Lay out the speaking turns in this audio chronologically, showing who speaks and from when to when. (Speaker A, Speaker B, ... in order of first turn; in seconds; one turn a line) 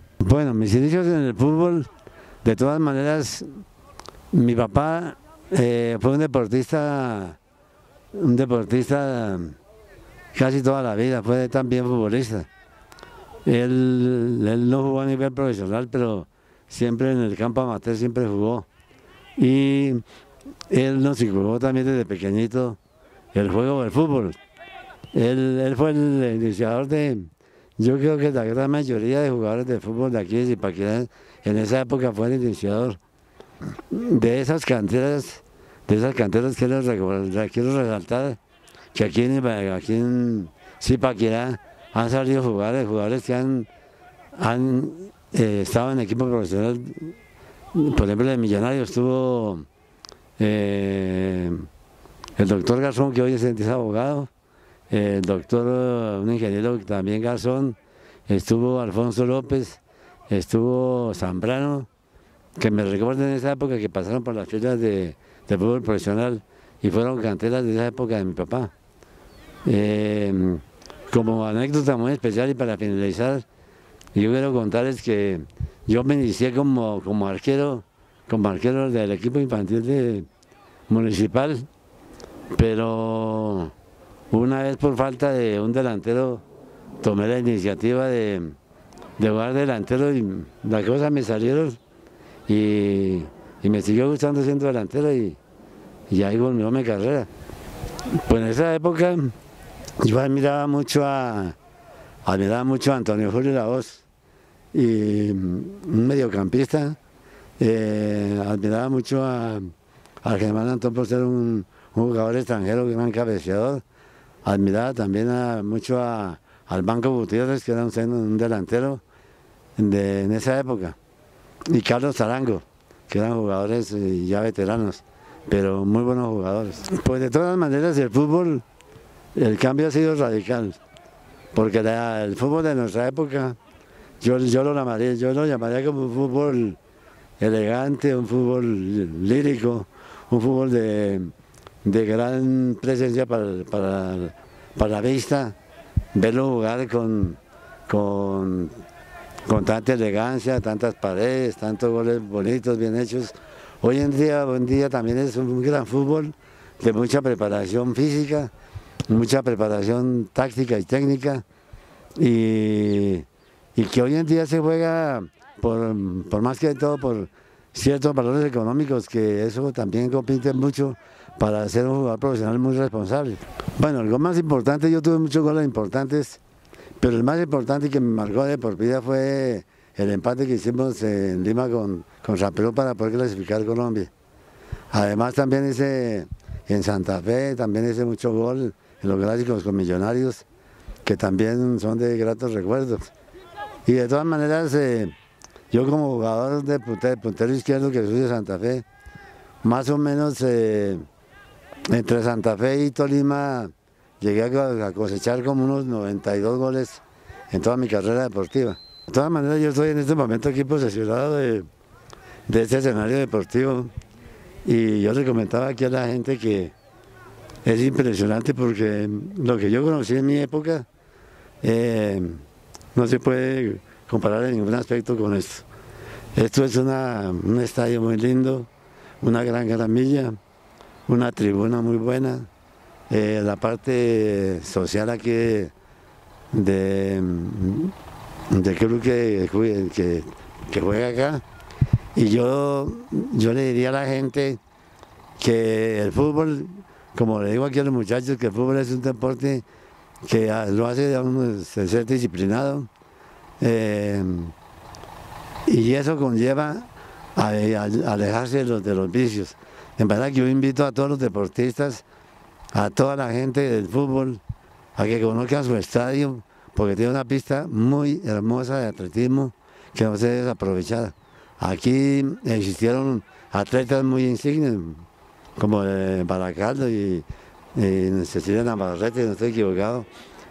Speaker A: 0.2-1.9
Speaker A: 2.4-3.5
Speaker A: 4.3-7.4
Speaker A: 8.1-9.6
Speaker A: 10.3-12.5
Speaker A: 13.4-18.7
Speaker A: 19.4-20.0
Speaker A: 20.7-22.8
Speaker A: 23.3-24.4
Speaker A: 25.1-33.0
Speaker A: 33.9-38.4
Speaker A: 38.9-43.7
Speaker A: 44.4-47.1
Speaker A: 47.7-49.7
Speaker A: 50.4-51.7
Speaker A: 52.4-54.3
Speaker A: 54.9-61.9
Speaker A: 62.6-68.7
Speaker A: 69.7-73.5
Speaker A: 74.1-80.3
Speaker A: 80.9-81.7
Speaker A: 82.5-83.7
Speaker A: 84.3-86.4
Speaker A: 87.0-88.6
Speaker A: 89.2-91.8
Speaker A: 92.5-95.4
Speaker A: 96.1-97.3
Speaker A: 98.1-99.3
Speaker A: 100.0-101.6
Speaker A: 102.2-104.0
Speaker A: 104.7-107.0
Speaker A: 107.6-113.8
Speaker A: 114.4-119.0
Speaker A: 119.8-121.0
Speaker A: 121.7-128.6
Speaker A: 129.3-130.8
Speaker A: 131.5-133.6
Speaker A: 134.2-136.8
Speaker A: 137.4-141.3
Speaker A: 141.8-145.6
Speaker A: 146.1-148.7
Speaker A: 149.5-158.5
Speaker A: 159.1-161.4
Speaker A: 162.2-176.4
Speaker A: 177.0-184.1
Speaker A: 184.9-190.4
Speaker A: 191.1-193.1
Speaker A: 193.9-195.1
Speaker A: 195.7-198.8
Speaker A: 199.6-201.1
Speaker A: 201.9-211.7
Speaker A: 212.5-213.9
Speaker A: 214.7-216.7
Speaker A: 217.6-220.9
Speaker A: 221.6-222.4
Speaker A: 222.9-225.7
Speaker A: 226.4-228.7
Speaker A: 229.2-230.4
Speaker A: 231.1-232.5
Speaker A: 233.1-235.7
Speaker A: 236.5-237.9
Speaker A: 238.5-241.4
Speaker A: 242.2-244.6
Speaker A: 245.4-249.7
Speaker A: 250.2-252.9
Speaker A: 253.6-254.5
Speaker A: 255.7-262.0
Speaker A: 262.7-264.4
Speaker A: 265.0-275.1
Speaker A: 275.6-280.1